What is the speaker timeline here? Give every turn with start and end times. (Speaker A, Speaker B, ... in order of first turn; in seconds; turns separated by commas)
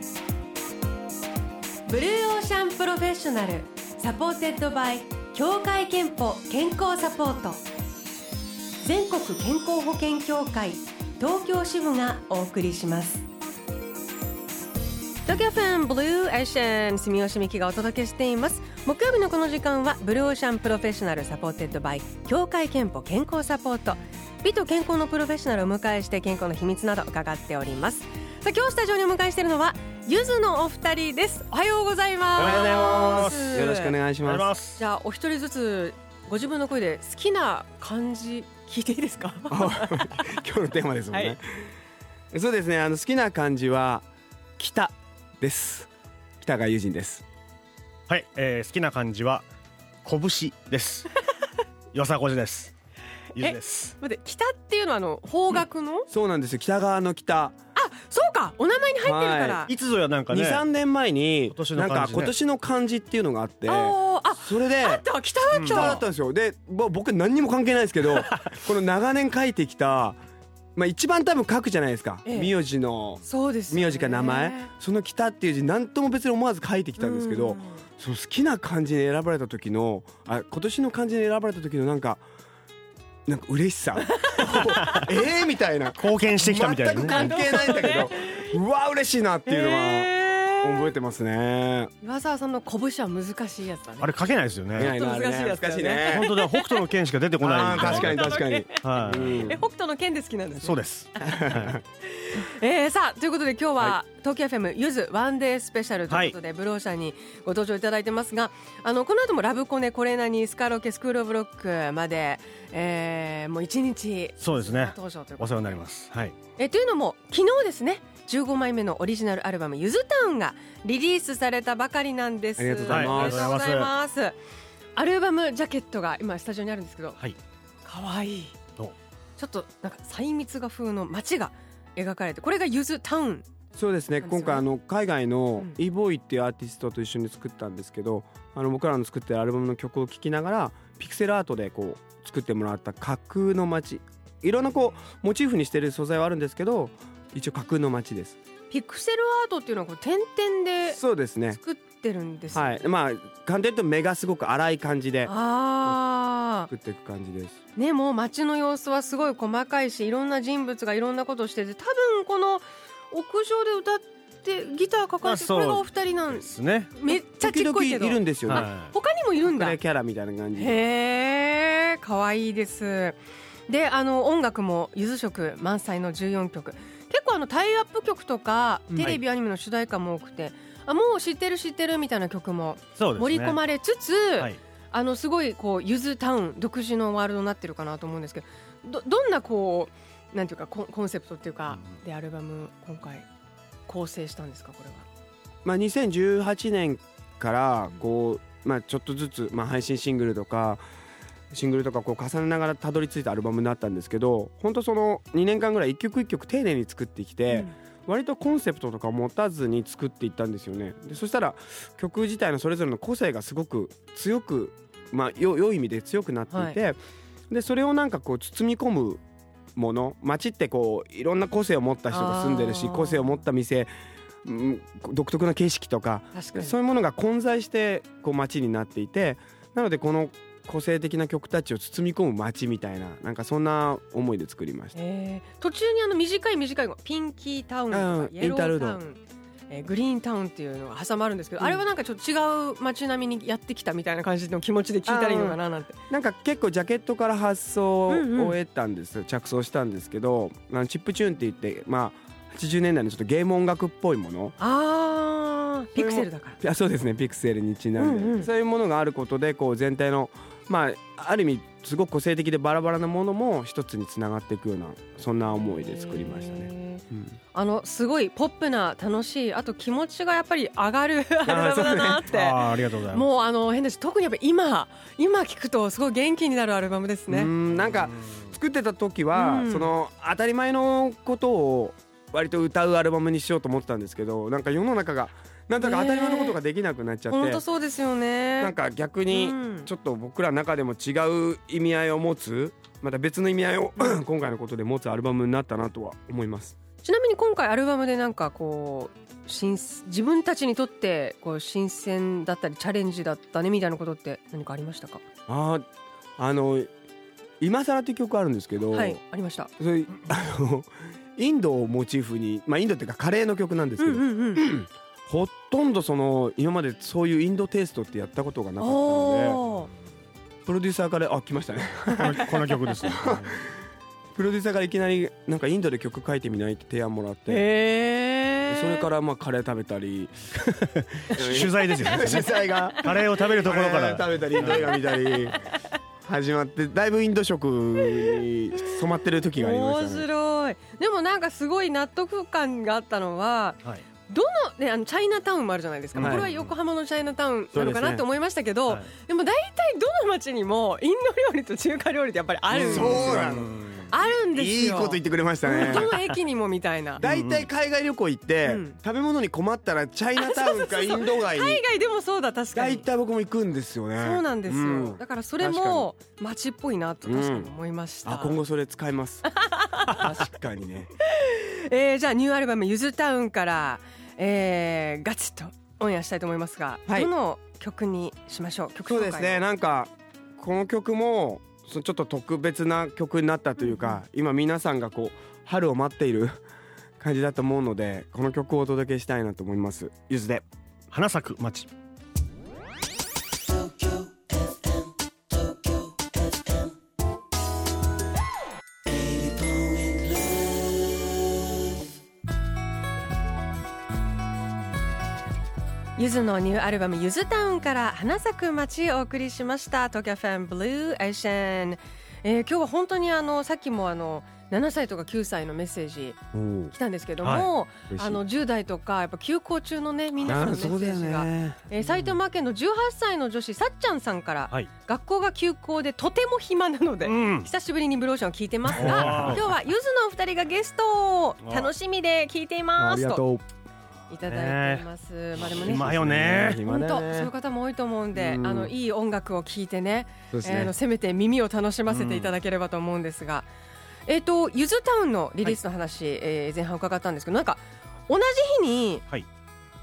Speaker A: 1.9-7.6, Speaker A: 8.8-13.3, Speaker A: 15.2-34.0, Speaker B: 32.4-33.7, Speaker C: 32.4-34.5, Speaker B: 34.2-34.8, Speaker A: 34.8-40.2, Speaker C: 39.5-41.7, Speaker C: 42.3-44.1, Speaker C: 44.6-45.9, Speaker C: 46.4-47.2, Speaker B: 48.1-49.5, Speaker B: 50.0-51.1, Speaker B: 51.9-52.7, Speaker B: 53.3-54.0, Speaker A: 53.4-56.1, Speaker C: 56.1-57.5, Speaker A: 57.8-59.7, Speaker C: 59.0-59.6, Speaker B: 59.7-60.6, Speaker C: 60.3-65.1, Speaker B: 61.5-62.3, Speaker A: 63.6-66.0, Speaker B: 65.5-66.0, Speaker C: 65.6-70.2, Speaker C: 70.8-82.2, Speaker A: 72.3-72.5, Speaker A: 73.2-74.7, Speaker A: 77.0-77.8, Speaker C: 83.3-91.9, Speaker A: 84.2-85.0, Speaker B: 86.0-87.6, Speaker A: 86.6-88.5, Speaker A: 89.5-90.9, Speaker A: 92.0-94.1, Speaker B: 94.0-94.9, Speaker C: 94.8-96.3, Speaker A: 94.8-96.8, Speaker B: 96.1-99.5, Speaker C: 97.4-99.6, Speaker A: 97.7-101.5, Speaker B: 100.6-101.8, Speaker C: 101.2-101.8, Speaker A: 102.0-115.8, Speaker B: 106.1-106.3, Speaker B: 114.4-116.3, Speaker A: 116.6-124.4, Speaker C: 122.6-123.5, Speaker B: 122.9-123.9, Speaker A: 125.0-127.2, Speaker A: 127.8-128.6, Speaker A: 129.4-133.5, Speaker C: 133.7-148.4, Speaker A: 134.2-134.7, Speaker A: 148.7-151.0, Speaker C: 150.9-151.6, Speaker A: 151.5-152.9, Speaker C: 152.5-155.3, Speaker A: 155.2-156.7, Speaker C: 156.7-157.6, Speaker A: 157.8-169.8, Speaker B: 165.2-166.9, Speaker C: 167.3-168.7, Speaker B: 168.5-168.9, Speaker C: 169.4-170.8, Speaker A: 170.6-193.3, Speaker C: 178.9-179.2, Speaker B: 183.0-183.6, Speaker A: 193.9-195.1, Speaker C: 195.7-200.8, Speaker C: 201.5-217.0, Speaker A: 207.5-207.7, Speaker A: 216.5-216.8, Speaker C: 217.5-219.2, Speaker C: 219.8-223.9, Speaker A: 222.1-223.3, Speaker C: 224.4-234.9, Speaker A: 226.3-226.8, Speaker A: 234.9-246.0, Speaker C: 237.9-239.0, Speaker C: 245.1-245.6, Speaker C: 246.1-254.6, Speaker A: 248.1-248.6, Speaker A: 254.6-256.6, Speaker C: 256.0-267.3, Speaker A: 258.0-258.5, Speaker A: 265.5-277.5, Speaker C: 271.5-272.3, Speaker B: 272.2-273.3, Speaker C: 277.3-287.6, Speaker B: 277.7-278.4, Speaker A: 279.3-279.9, Speaker A: 285.8-286.6, Speaker A: 287.3-288.7, Speaker C: 288.6-296.8, Speaker A: 289.3-289.9, Speaker A: 297.0-305.2, Speaker C: 305.5-305.9, Speaker C: 306.4-306.9, Speaker C: 307.6-309.2, Speaker A: 308.9-309.7, Speaker C: 309.8-319.6, Speaker A: 314.0-314.6, Speaker A: 318.8-319.9, Speaker C: 320.7-323.6, Speaker B: 322.2-323.6, Speaker C: 324.4-327.7, Speaker A: 327.5-329.1, Speaker C: 328.7-330.5, Speaker B: 330.7-334.9, Speaker C: 331.3-335.6, Speaker A: 334.6-335.8, Speaker C: 336.2-340.3, Speaker A: 338.0-338.4, Speaker A: 339.6-357.2, Speaker B: 346.1-346.7, Speaker C: 346.2-346.5, Speaker C: 347.7-348.2, Speaker C: 352.7-353.7, Speaker B: 352.8-354.1, Speaker C: 354.5-356.2, Speaker B: 355.9-356.2, Speaker B: 357.2-357.7, Speaker C: 357.2-361.8, Speaker A: 358.6-359.0, Speaker A: 360.4-363.1, Speaker C: 362.8-366.1, Speaker A: 364.2-368.6, Speaker C: 367.2-367.7, Speaker C: 368.2-369.5, Speaker A: 369.5-370.3, Speaker C: 370.0-371.1, Speaker A: 371.2-379.7, Speaker C: 379.1-386.6, Speaker C: 387.2-390.6, Speaker B: 391.1-391.9, Speaker A: 406.2-416.4, Speaker C: 416.5-416.9, Speaker A: 416.9-433.4, Speaker B: 417.4-417.7, Speaker C: 418.1-418.4, Speaker C: 420.4-421.9, Speaker B: 427.2-427.7, Speaker C: 428.9-429.6, Speaker B: 429.0-429.7, Speaker B: 431.6-431.9, Speaker C: 433.0-433.6, Speaker A: 434.3-436.1, Speaker B: 434.4-435.1, Speaker B: 435.6-436.8, Speaker C: 435.8-437.5, Speaker A: 436.7-443.7, Speaker C: 438.3-438.9, Speaker C: 440.5-440.9, Speaker B: 442.1-442.6, Speaker A: 444.3-449.2